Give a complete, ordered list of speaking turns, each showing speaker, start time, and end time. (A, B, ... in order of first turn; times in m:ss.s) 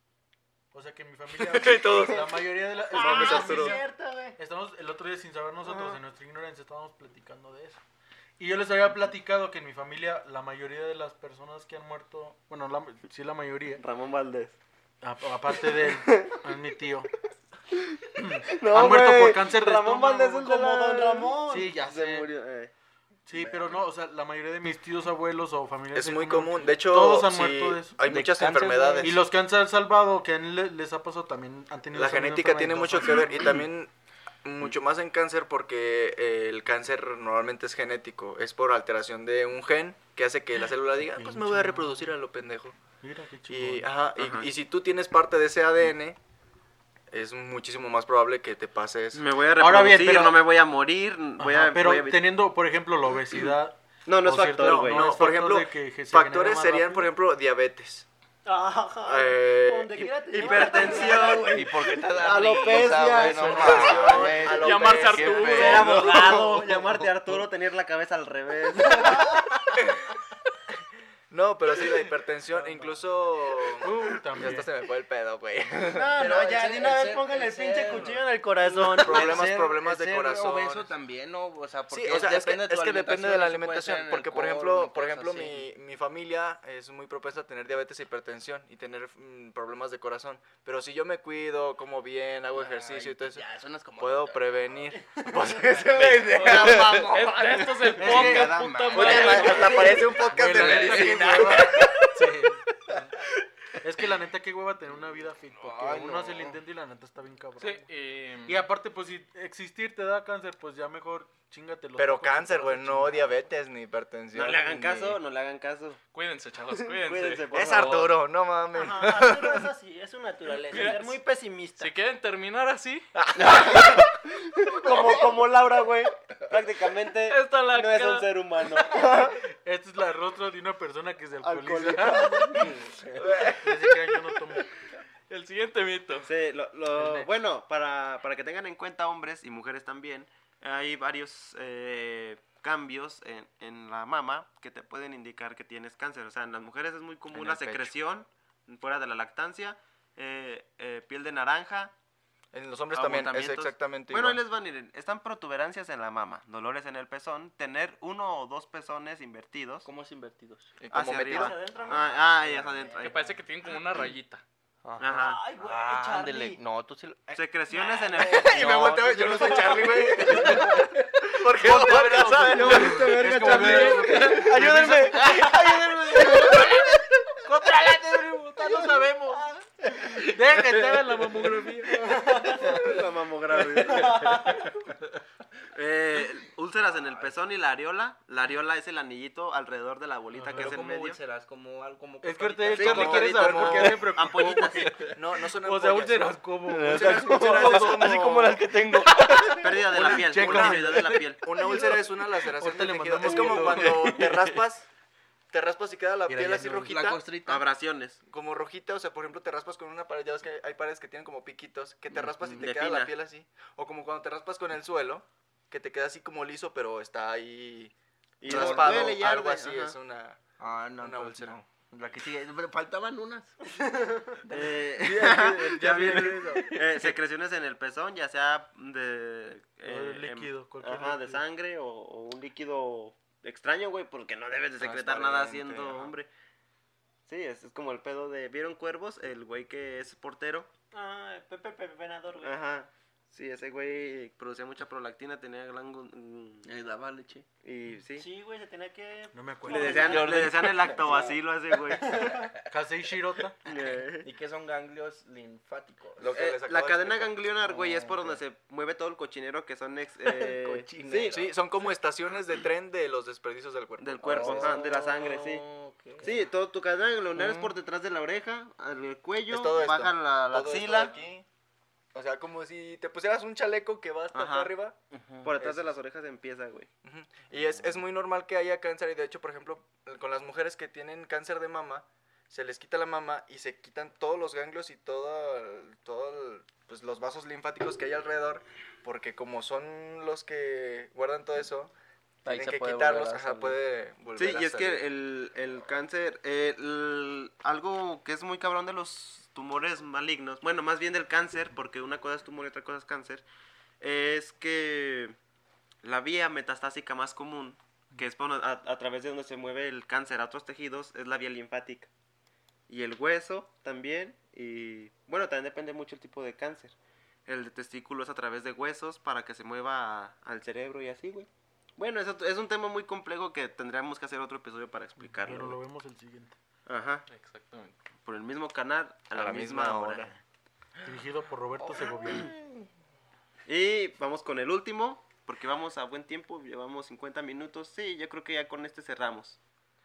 0:00.7-0:07.8 A
0:01.4-0:02.4 B
0:02.9-0:03.8 B
0:02.9-0:04.4 C
0:05.6-0:06.0 C
0:08.4-0:13.8 A
0:13.8-0:14.6 D
0:15.0-0:17.1 A
0:15.7-0:16.4 D
0:18.2-0:20.4 A
0:18.5-0:22.7 D
0:20.3-0:21.8 C
0:21.4-0:22.3 A
0:23.3-0:33.6 A
0:23.3-0:23.8 E
0:25.9-0:29.2 B
0:28.1-0:29.2 E
0:31.9-0:33.9 B
0:34.4-0:42.8 B
0:41.2-0:42.1 A
0:43.0-0:43.9 A
0:43.5-0:46.2 B
0:44.2-0:44.5 D
0:47.1-0:49.2 B
0:49.1-0:52.2 D
0:49.6-0:50.4 A
0:51.4-0:57.1 A
0:54.0-0:55.1 D
0:54.5-0:58.0 B
0:58.4-1:02.0 C
0:59.0-1:01.4 B
1:00.3-1:04.6 D
1:01.1-1:07.5 E
1:03.1-1:05.8 B
1:04.5-1:06.2 F
1:05.4-1:09.4 D
1:11.3-1:16.1 B
1:12.5-1:12.9 A
1:13.8-1:14.7 A
1:15.9-1:19.5 C
1:16.1-1:25.7 E
1:19.0-1:20.9 B
1:21.9-1:33.4 B
1:32.5-1:34.6 E
1:34.0-1:37.1 B
1:35.9-1:41.9 E
1:36.3-1:40.0 F
1:38.0-1:38.6 A
1:38.9-1:41.7 B
1:40.2-1:43.0 A
1:41.6-1:42.0 F
1:43.8-1:47.8 A
1:45.6-1:46.6 E
1:47.6-1:48.6 F
1:48.4-1:53.4 A
1:52.0-1:55.2 B
1:54.3-1:56.0 D
1:56.1-1:58.1 F
1:56.8-1:58.1 D
1:57.5-1:59.6 B
1:58.7-2:01.9 C
2:00.7-2:01.2 F
2:01.8-2:03.1 F
2:03.4-2:03.9 B
2:03.4-2:04.0 D
2:03.4-2:04.0 E
2:04.7-2:09.3 D
2:07.3-2:08.3 F
2:08.8-2:12.7 A
2:11.4-2:12.6 C
2:12.6-2:13.4 E
2:13.3-2:13.5 B
2:13.3-2:14.7 A
2:15.3-2:16.3 F
2:16.2-2:31.9 D
2:27.3-2:27.9 B
2:32.5-2:34.4 B
2:32.9-2:39.9 D
2:39.8-2:40.8 E
2:40.8-2:41.6 B
2:40.9-2:43.3 D
2:41.3-2:42.9 C
2:41.9-2:43.1 E
2:43.0-2:44.4 F
2:44.8-2:47.4 E
2:45.0-2:45.4 D
2:45.1-2:46.6 C
2:47.3-2:49.7 D
2:47.7-2:48.2 C
2:48.1-2:57.0 E
2:48.2-2:53.2 B
2:51.6-2:55.6 A
2:52.6-2:54.4 D
2:54.2-2:57.0 B
2:57.4-2:59.5 A
3:00.1-3:02.4 A
3:00.1-3:01.6 E
3:02.0-3:02.8 C
3:02.6-3:03.0 E
3:02.6-3:04.2 D
3:03.8-3:04.7 E
3:03.8-3:04.7 C
3:05.7-3:11.2 D
3:06.9-3:07.3 E
3:10.3-3:10.7 A
3:10.5-3:13.2 E
3:12.2-3:18.1 A
3:12.7-3:15.0 D
3:12.8-3:14.1 B
3:14.7-3:15.2 E
3:15.1-3:18.6 B
3:16.6-3:20.2 E
3:19.3-3:21.2 A
3:19.6-3:21.5 D
3:20.0-3:24.9 B
3:21.0-3:22.0 E
3:22.5-3:24.3 A
3:23.2-3:24.6 E
3:25.5-3:27.2 B
3:26.3-3:27.6 E
3:27.4-3:28.2 D
3:28.3-3:40.4 B
3:32.3-3:32.6 E
3:32.5-3:33.1 D
3:38.4-3:40.0 D
3:38.5-3:39.2 E
3:40.6-3:43.5 E
3:41.0-3:41.6 B
3:44.4-3:47.1 E
3:44.5-3:56.3 D
3:49.8-3:51.4 A
3:54.8-3:56.1 B
3:57.3-4:00.7 D
4:00.9-4:02.6 C
4:02.4-4:06.7 D
4:06.6-4:07.4 E
4:07.6-4:08.3 D
4:08.2-4:10.2 C
4:09.3-4:10.3 A
4:09.7-4:12.3 D
4:09.7-4:11.4 E
4:11.9-4:12.7 E
4:12.0-4:12.5 C
4:12.7-4:13.6 A
4:13.6-4:14.3 D
4:13.7-4:16.4 E
4:16.2-4:17.4 B
4:16.3-4:21.5 D
4:17.6-4:18.4 E
4:20.2-4:21.5 E
4:21.1-4:24.9 B
4:24.0-4:25.6 D
4:24.2-4:26.5 E
4:26.2-4:31.1 D
4:27.4-4:27.7 E
4:29.5-4:31.4 B
4:32.1-4:35.0 B
4:34.3-4:34.7 D
4:35.1-4:35.6 E
4:35.4-4:36.9 D
4:35.6-4:35.9 B
4:37.0-4:51.9 B
4:52.4-4:53.8 E
4:52.5-4:55.0 B
4:54.4-5:03.4 D
5:04.0-5:05.4 D
5:06.0-5:12.1 D
5:12.9-5:16.9 D
5:17.5-5:25.8 D
5:25.2-5:26.5 A
5:26.9-5:27.2 D
5:27.3-5:28.0 F
5:28.2-5:30.3 D
5:29.3-5:30.3 B
5:31.0-5:32.5 A
5:33.7-5:39.6 D